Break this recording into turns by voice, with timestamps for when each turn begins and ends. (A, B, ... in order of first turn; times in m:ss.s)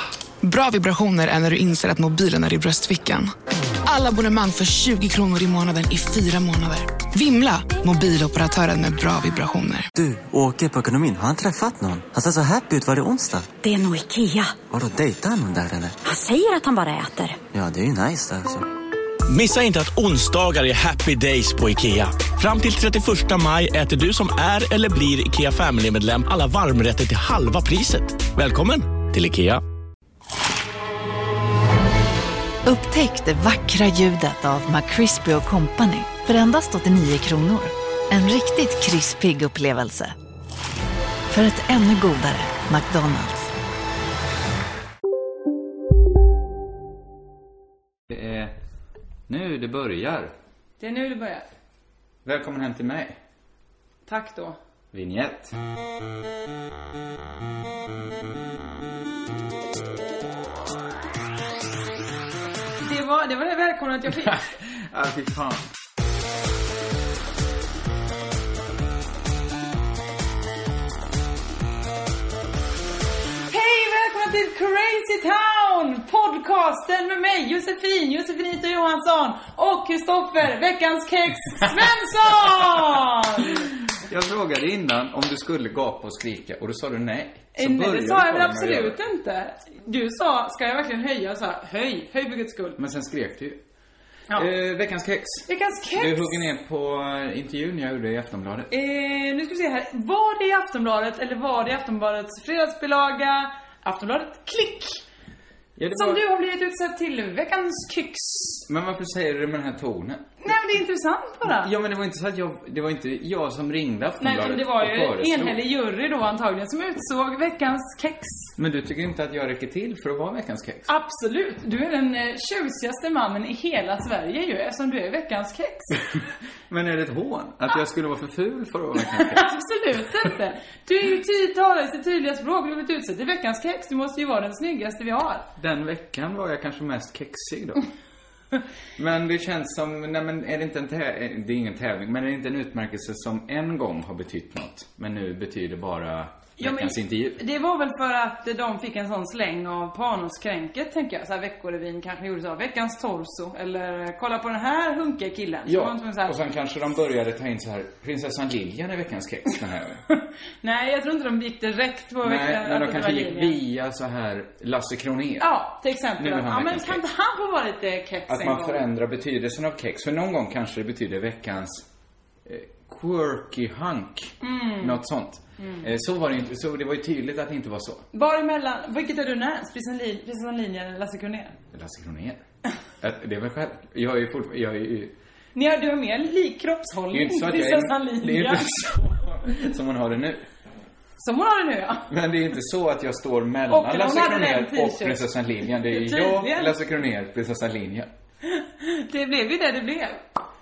0:00.4-0:03.3 A
0:03.9-0:09.9 A
0:09.9-0:13.5 B
0:13.6-0:14.6 C
0:14.7-0:16.0 B
0:16.0-0:17.4 C
0:17.5-0:18.7 B
0:19.3-0:29.6 D
0:32.6-0:40.2 E
0:41.3-0:43.5 E
0:48.1-0:48.6 F
0:49.3-0:50.3 F
0:50.8-0:51.5 G
0:52.2-0:53.2 F
0:54.1-0:54.6 G
0:54.9-0:55.6 F
1:02.8-1:04.4 G
1:04.2-1:05.7 F
1:13.5-1:23.7 G
1:23.9-1:29.0 F
1:27.6-1:32.8 G
1:32.8-1:33.6 F
1:34.3-1:38.7 F
1:35.5-1:36.4 G
1:38.7-1:45.0 G
1:45.8-1:46.2 F
1:45.9-1:48.6 G
1:48.7-1:50.4 F
1:50.4-1:51.7 G
1:51.4-1:55.6 F
1:54.2-1:58.5 G
1:58.6-2:00.9 F
2:00.9-2:06.0 G
2:06.7-2:09.5 F
2:09.0-2:15.5 G
2:15.6-2:17.9 F
2:19.0-2:27.4 F
2:26.6-2:36.4 G
2:35.7-2:40.0 F
2:40.6-2:43.6 G
2:42.2-2:45.5 F
2:45.4-2:48.9 G
2:46.2-2:47.0 F
2:48.3-2:51.9 F
2:52.4-2:58.1 F
2:54.4-2:55.0 G
2:55.6-2:55.8 G
2:58.1-3:01.6 G
3:01.7-3:02.4 F
3:03.0-3:05.1 F
3:05.6-3:08.7 G
3:07.1-3:10.5 F
3:11.2-3:12.1 G
3:12.1-3:18.1 F
3:13.7-3:16.8 G
3:18.4-3:20.2 G